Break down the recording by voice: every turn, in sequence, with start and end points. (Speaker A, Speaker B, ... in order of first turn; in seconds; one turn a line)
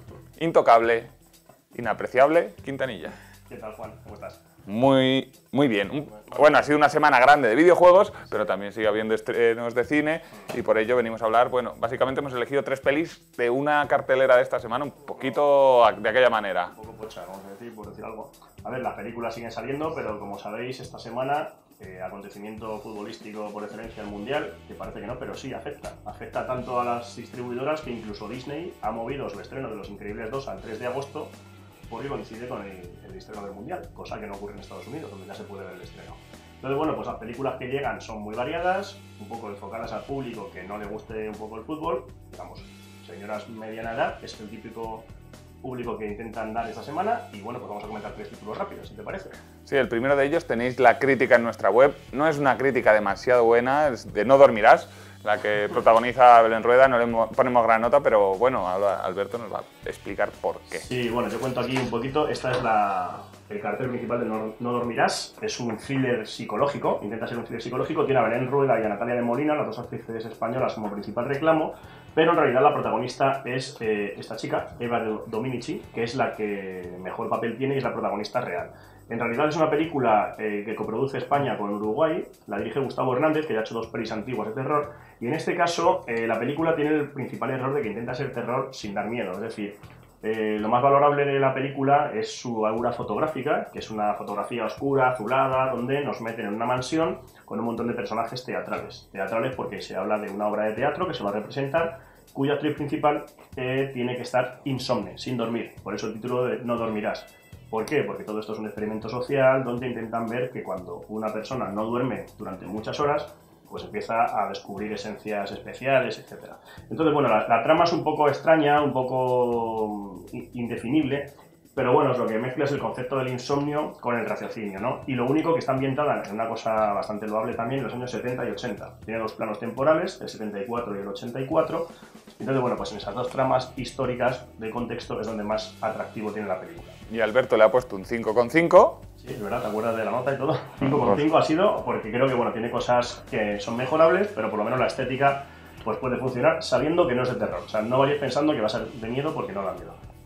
Speaker A: 0.4-1.1
Speaker A: 1.7-3.2
Speaker B: 3.5-4.4
Speaker A: 4.7-16.7
Speaker B: 16.7-31.4
Speaker B: 31.9-45.1
Speaker B: 45.6-49.4
Speaker A: 49.7-60.8
Speaker B: 60.7-137.0
Speaker A: 137.1-139.0
Speaker B: 139.2-150.0